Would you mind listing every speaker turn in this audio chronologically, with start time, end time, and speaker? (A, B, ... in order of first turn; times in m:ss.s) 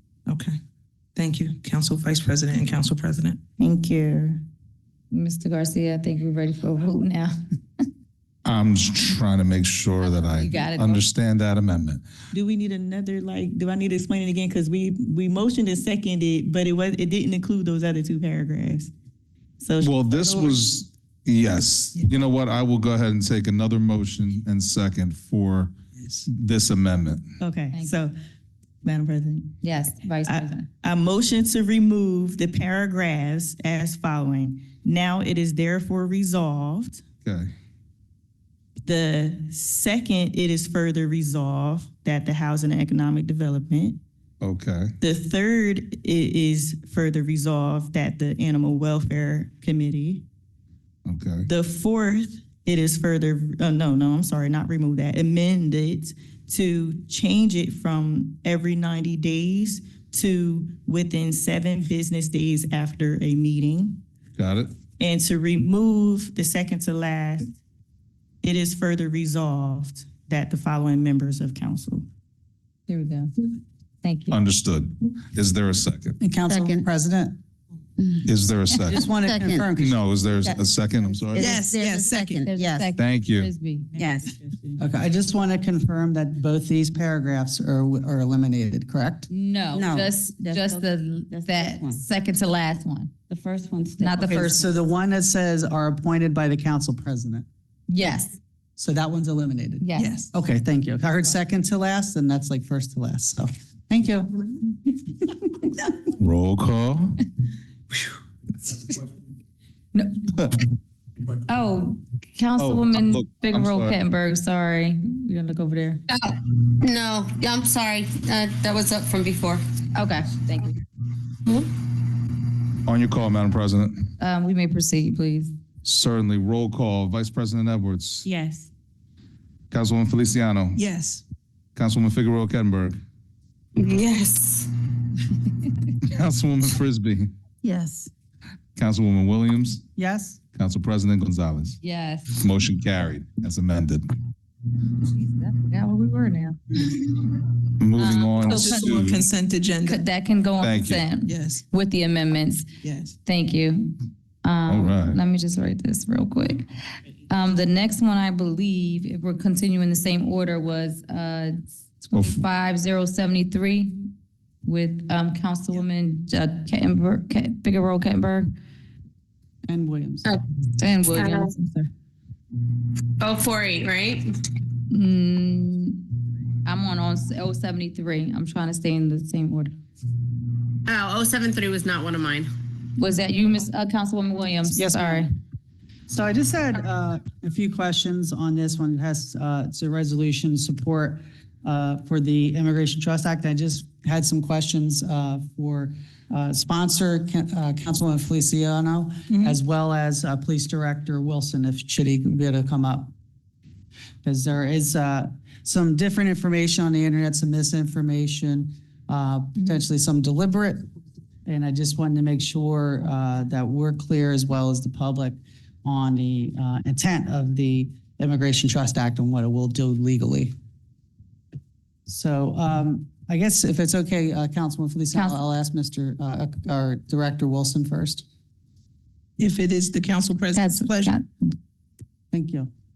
0:00.3-0:00.6 A
0:01.2-0:03.4 A
0:03.6-0:04.4 B
0:05.1-0:07.4 C
0:08.4-0:12.0 D
0:10.0-0:11.0 C
0:12.3-0:18.9 B
0:19.6-0:20.6 B
0:19.8-0:25.7 D
0:26.2-0:27.2 D
0:27.4-0:28.1 B
0:28.8-0:29.6 B
0:29.6-0:30.7 C
0:30.3-0:37.0 B
0:37.2-0:37.5 D
0:38.8-0:44.0 B
0:44.4-0:44.9 D
0:45.0-0:50.2 B
0:51.0-0:51.5 D
0:51.5-1:04.0 B
1:04.4-1:04.7 D
1:05.0-1:07.6 B
1:08.4-1:12.1 B
1:12.9-1:13.3 C
1:14.0-1:14.4 C
1:14.3-1:16.2 D
1:16.2-1:17.4 E
1:16.5-1:16.8 F
1:18.0-1:18.3 F
1:18.2-1:19.1 D
1:18.8-1:20.0 E
1:19.2-1:19.7 F
1:19.7-1:21.6 D
1:21.3-1:22.9 F
1:21.3-1:22.5 A
1:22.4-1:23.9 C
1:23.0-1:23.5 D
1:24.0-1:24.4 F
1:24.0-1:24.7 B
1:24.8-1:29.3 E
1:29.3-1:33.1 C
1:29.7-1:32.0 F
1:33.3-1:34.5 F
1:34.0-1:34.6 C
1:34.2-1:37.5 E
1:37.9-1:38.4 C
1:38.8-1:44.6 E
1:39.8-1:40.1 C
1:40.0-1:40.3 A
1:46.2-1:47.2 D
1:49.9-1:50.3 C
1:51.5-1:56.0 C
1:52.6-1:54.0 D
1:56.2-1:59.6 G
1:59.9-2:00.8 C
2:02.8-2:03.9 D
2:04.2-2:05.5 C
2:05.8-2:08.2 D
2:08.2-2:08.7 B
2:09.7-2:10.8 D
2:10.8-2:11.2 A
2:11.8-2:13.0 D
2:13.8-2:14.7 G
2:16.0-2:17.3 D
2:17.6-2:18.1 F
2:18.8-2:19.8 D
2:20.0-2:20.4 E
2:20.6-2:21.8 D
2:21.8-2:22.4 C
2:22.4-2:24.1 D
2:25.1-2:26.6 C
2:27.8-2:29.2 D
2:28.0-2:29.1 C
2:28.4-2:30.1 A
2:29.9-2:32.7 C
2:30.6-2:31.1 D
2:31.2-2:31.6 A
2:32.8-2:33.2 A
2:33.2-2:33.9 C
2:34.4-2:36.7 C
2:34.7-2:35.2 D
2:37.3-2:44.1 C
2:42.1-2:42.4 D
2:44.6-2:48.5 C
2:49.7-2:50.3 E
2:50.8-2:51.9 C
2:53.2-2:54.3 G
2:54.9-2:56.0 C
2:56.6-2:59.8 C
3:00.8-3:02.5 G
3:03.0-3:05.3 C
3:04.7-3:05.3 E
3:06.1-3:23.1 E
3:24.2-3:30.9 E
3:31.5-3:40.5 E
3:42.1-3:48.2 E
3:45.1-3:45.4 C
3:49.4-3:51.2 A
3:50.6-3:51.2 C
3:52.3-3:52.7 E